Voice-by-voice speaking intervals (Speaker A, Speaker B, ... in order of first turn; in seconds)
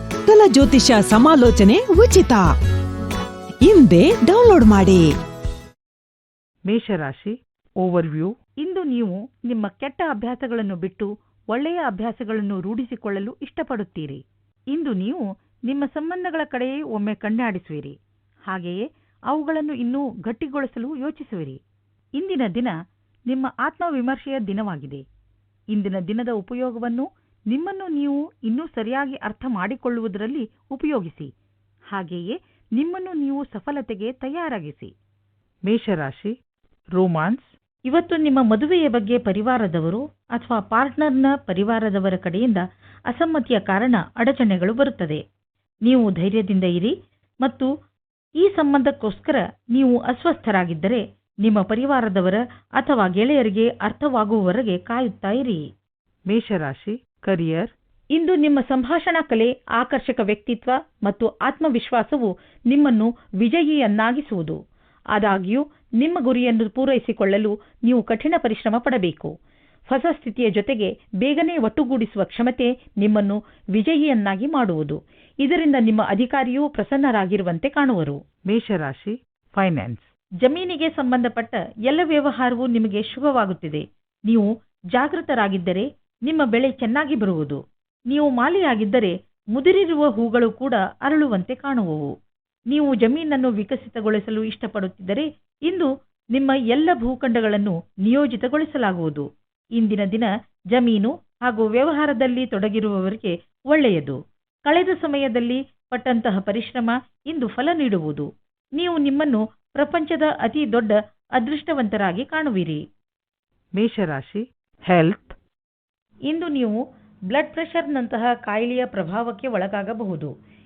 Speaker A: 0.2-2.5, 3.6-5.1
Speaker B: 6.7-7.3, 7.9-8.3, 35.7-36.3, 56.3-57.5, 78.5-79.1, 113.8-114.4
Speaker C: 7.8-21.6, 22.2-22.7, 23.3-25.0, 25.7-31.3, 31.9-34.9, 37.0-45.2, 45.8-47.7, 48.4-55.6, 56.3-64.6, 65.1-69.3, 69.9-87.6, 88.1-92.1, 92.7-112.8, 113.8-114.4, 114.9-115.3, 116.3-116.8, 117.3-120.3